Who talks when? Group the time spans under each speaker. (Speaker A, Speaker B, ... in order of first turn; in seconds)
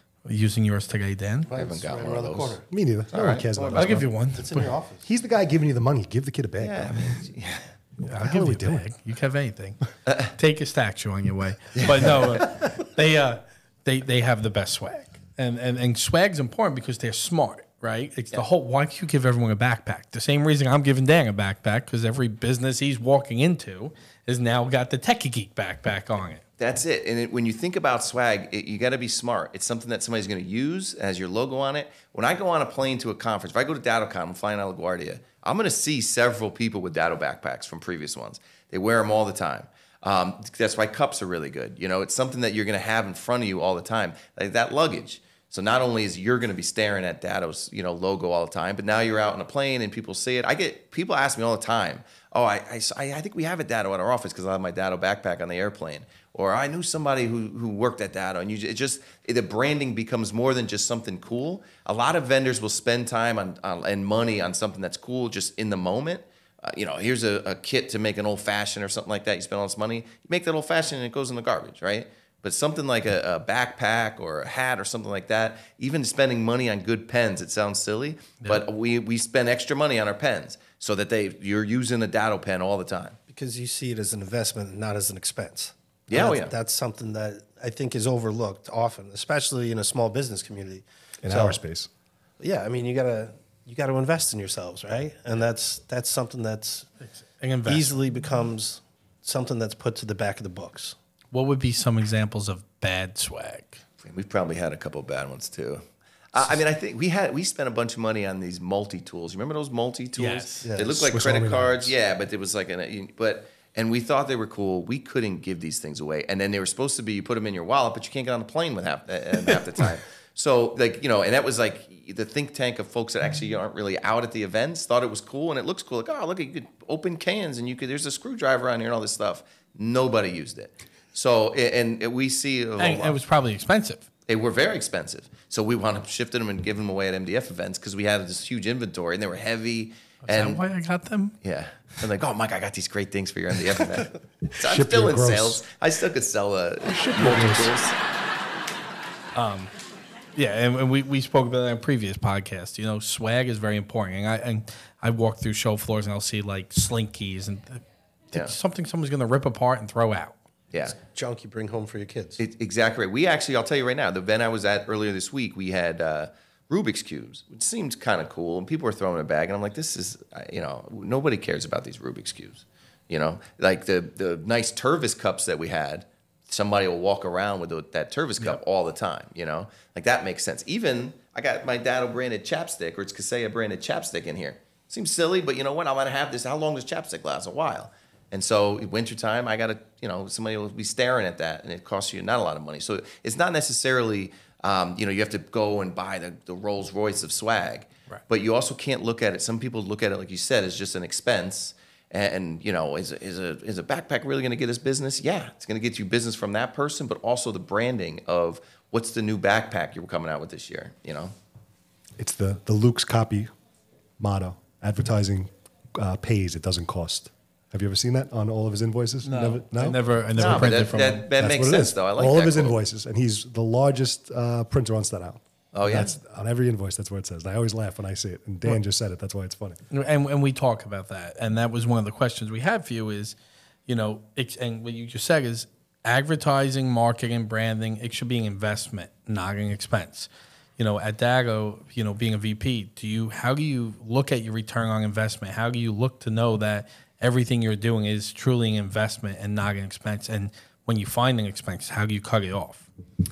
Speaker A: 0.2-1.5, 3.7-4.7, 8.0-9.8, 10.3-26.4, 97.4-97.9, 101.3-103.8, 110.2-110.7, 132.8-134.1, 140.3-141.3, 149.3-149.7, 150.3-160.3, 219.2-221.2, 229.9-233.4, 233.9-252.9
Speaker B: 1.5-2.7, 3.9-5.1, 83.3-91.6, 92.4-96.9, 97.7-101.0, 110.7-111.1, 161.0-162.4
Speaker C: 1.5-2.6, 3.1-3.9, 6.6-7.7, 11.8-12.4, 26.6-83.2, 86.1-86.5, 104.0-133.2, 134.3-140.6, 141.4-147.9, 162.4-211.3, 220.4-222.8, 225.7-226.2
Speaker D: 2.7-4.1, 5.0-7.2, 8.2-8.8, 91.2-91.9, 111.0-111.9, 144.6-145.6, 146.9-147.7, 212.2-213.5, 214.2-229.8